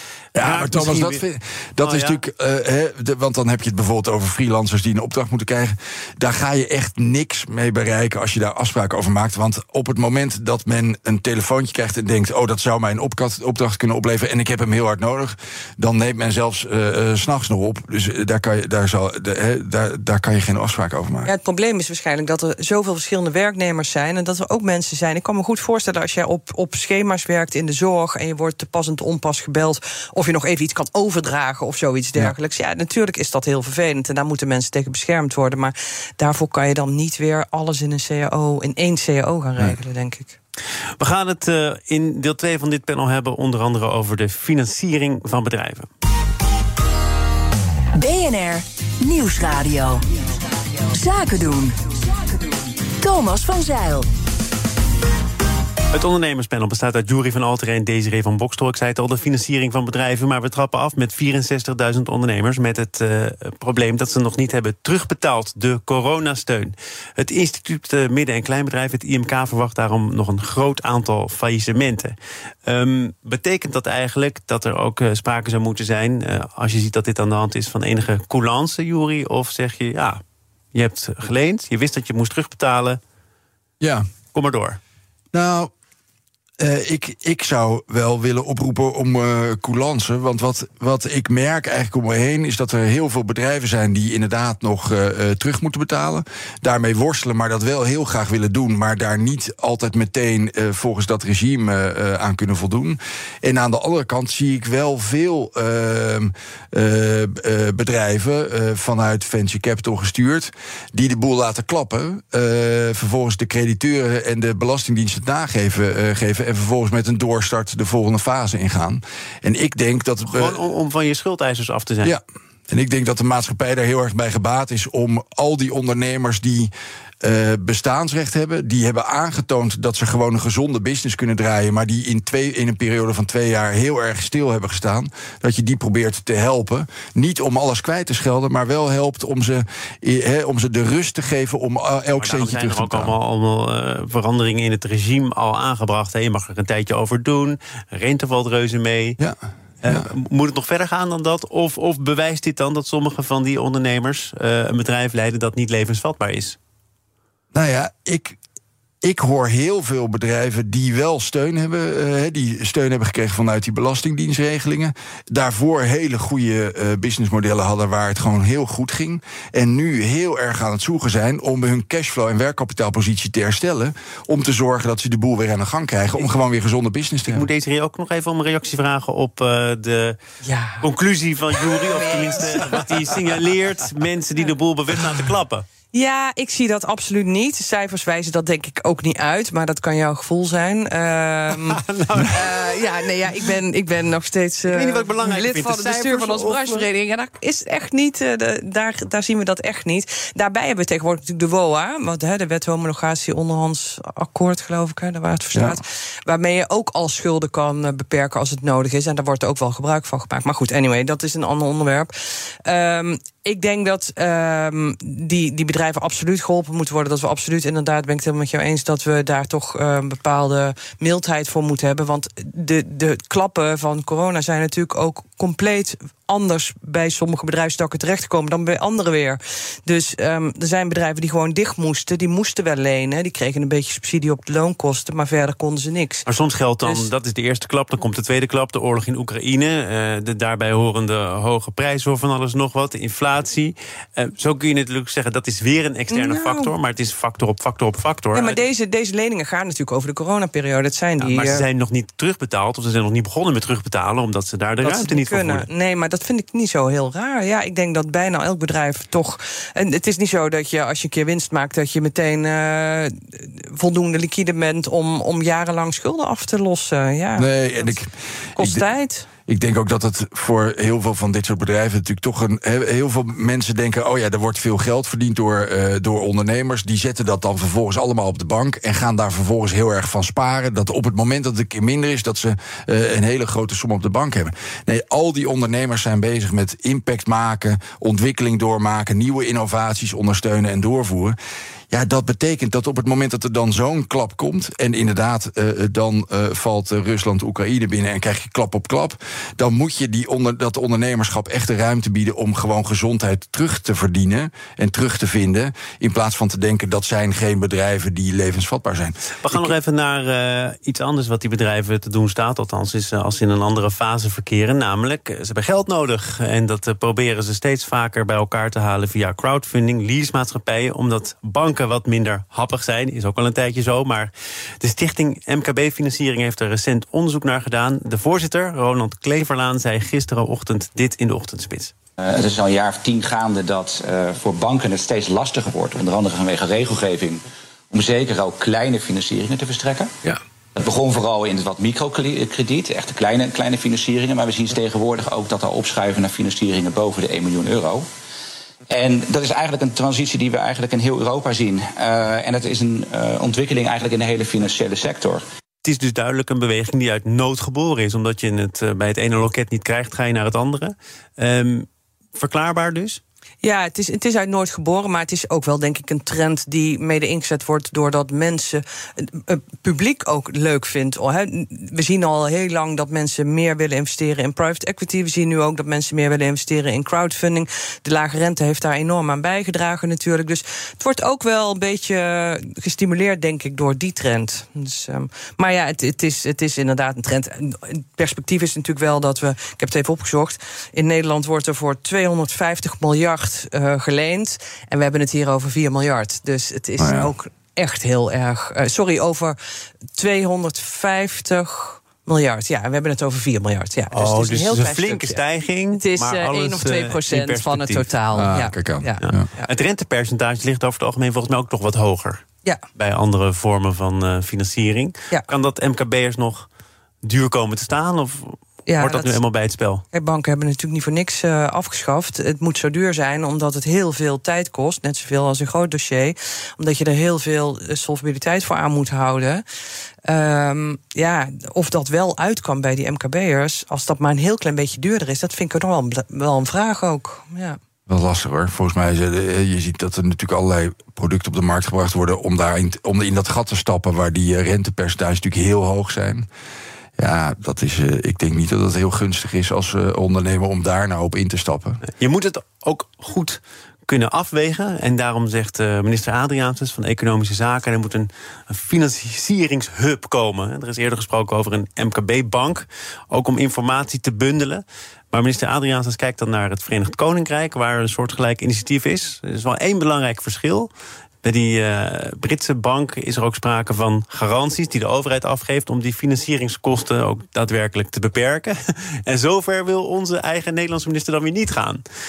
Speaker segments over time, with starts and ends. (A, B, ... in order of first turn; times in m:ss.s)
0:00.3-0:21.3 A
0:00.4-0:01.2 B
0:01.8-0:02.2 B
0:21.2-0:40.4 C
0:41.0-0:45.9 B
0:47.9-0:50.2 D
0:50.9-0:54.1 D
0:55.9-1:12.1 B
1:12.6-1:20.2 B
1:20.7-1:23.0 B
1:23.8-1:24.1 A
1:24.3-1:24.8 B
1:25.3-1:25.7 A
1:26.6-2:00.6 A
2:00.3-2:02.1 B
2:02.0-2:06.7 A
2:07.2-2:23.1 A
2:22.2-2:29.2 B
2:29.2-2:30.1 A
2:29.8-2:36.6 B
2:37.5-2:38.4 A
2:39.0-2:57.5 A
2:57.3-3:00.2 B
3:00.4-3:00.8 C
3:00.8-3:05.6 B
3:01.7-3:03.1 C
3:05.9-3:32.1 C
3:11.5-3:12.8 B
3:14.7-3:16.8 B
3:32.6-3:56.2 C
3:56.2-4:08.6 B
3:56.8-3:57.1 C
4:06.1-4:06.7 C
4:08.3-4:11.6 C
4:11.2-4:15.6 B
4:14.8-4:28.0 C
4:27.4-4:28.8 A
4:28.6-4:29.3 C
4:29.5-4:51.3 A
4:51.9-5:09.7 A
5:09.4-5:31.9 B
5:32.2-5:40.2 E
5:40.8-5:48.0 E
5:48.9-5:55.4 E
5:55.8-6:03.2 B
6:03.6-6:39.6 C
6:37.0-6:37.3 A
6:40.1-6:45.4 C
6:44.1-6:48.1 B
6:46.0-6:49.7 C
6:48.3-6:49.5 A
6:49.2-6:52.4 B
6:52.9-6:56.7 B
6:57.2-7:00.0 B
6:58.9-6:59.4 C
7:00.1-7:09.6 C
7:10.3-7:17.8 C
7:18.1-7:26.5 A
7:27.2-7:32.0 A
7:32.0-7:50.9 B
7:51.4-8:02.0 B